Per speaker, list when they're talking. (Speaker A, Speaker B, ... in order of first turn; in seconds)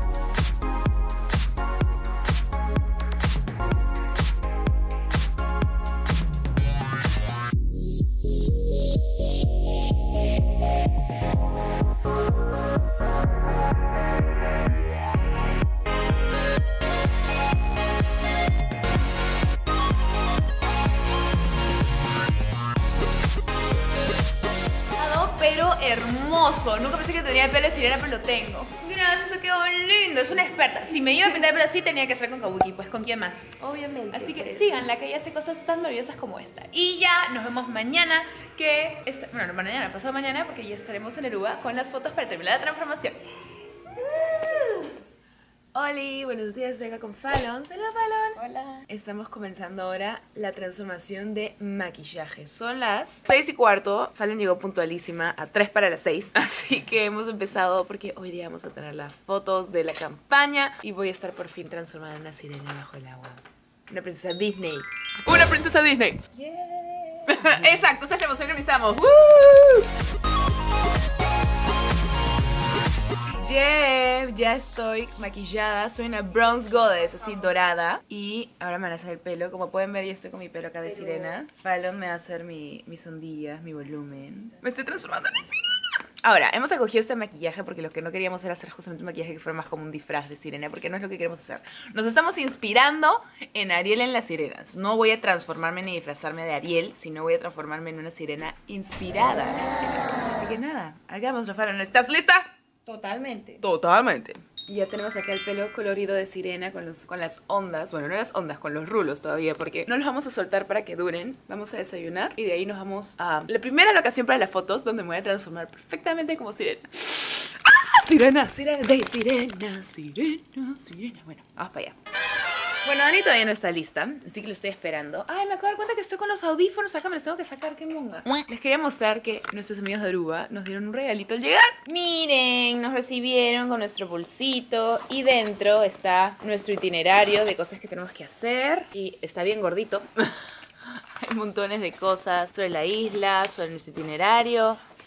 Speaker A: 25.0-44.9, 45.7-66.4, 67.2-69.9, 73.3-102.5, 103.6-122.0, 122.8-144.8
Speaker B: 33.8-34.6, 66.4-67.3, 102.9-103.6